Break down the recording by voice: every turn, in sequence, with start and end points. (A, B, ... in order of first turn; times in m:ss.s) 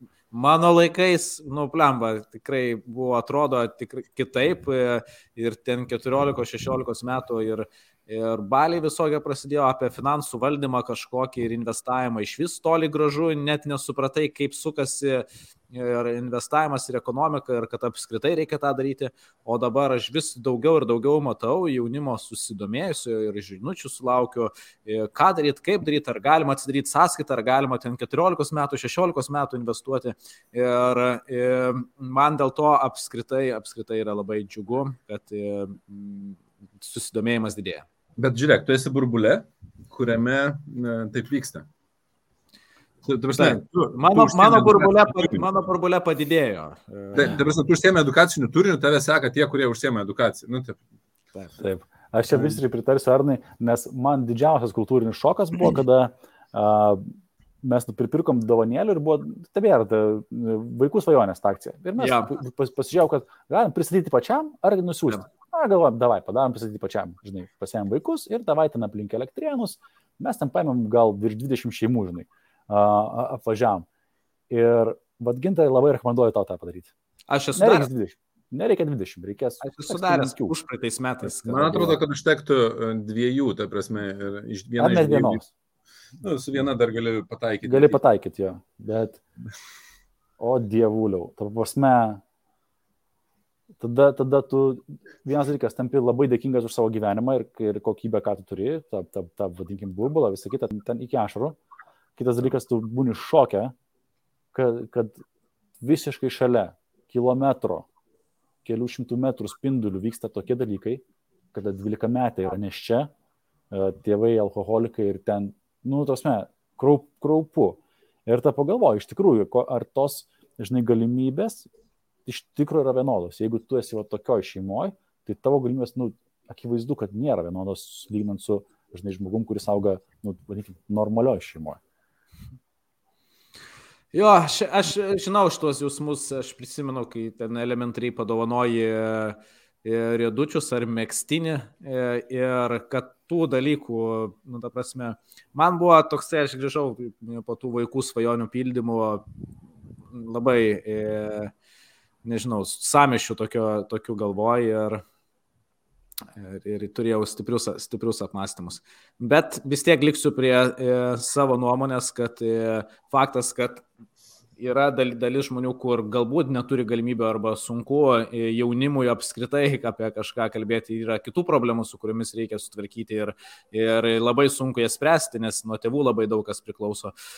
0:00.3-0:37.9 A
0:38.2-0:41.7 B
0:43.1-0:45.4 B
0:43.3-0:47.4 A
0:47.1-0:50.8 B
0:51.6-0:57.0 C
0:57.6-1:13.9 C
1:02.0-1:02.3 A
1:14.5-1:16.9 C
1:17.3-1:17.9 A
1:17.6-1:20.6 C
1:19.6-1:22.0 A
1:21.3-1:21.9 C
1:21.5-1:25.4 B
1:24.8-1:25.4 C
1:26.2-1:28.0 B
1:27.6-1:29.2 C
1:30.4-1:32.2 C
1:33.8-1:41.6 C
1:42.2-1:43.7 C
1:44.5-1:45.2 C
1:45.8-1:47.9 C
1:48.6-1:51.0 C
1:51.5-1:53.1 C
1:53.7-2:01.7 C
2:02.3-2:11.8 C
2:14.1-2:29.3 A
2:30.1-2:31.5 A
2:32.2-2:35.0 A
2:36.4-2:43.8 A
2:44.6-2:57.1 A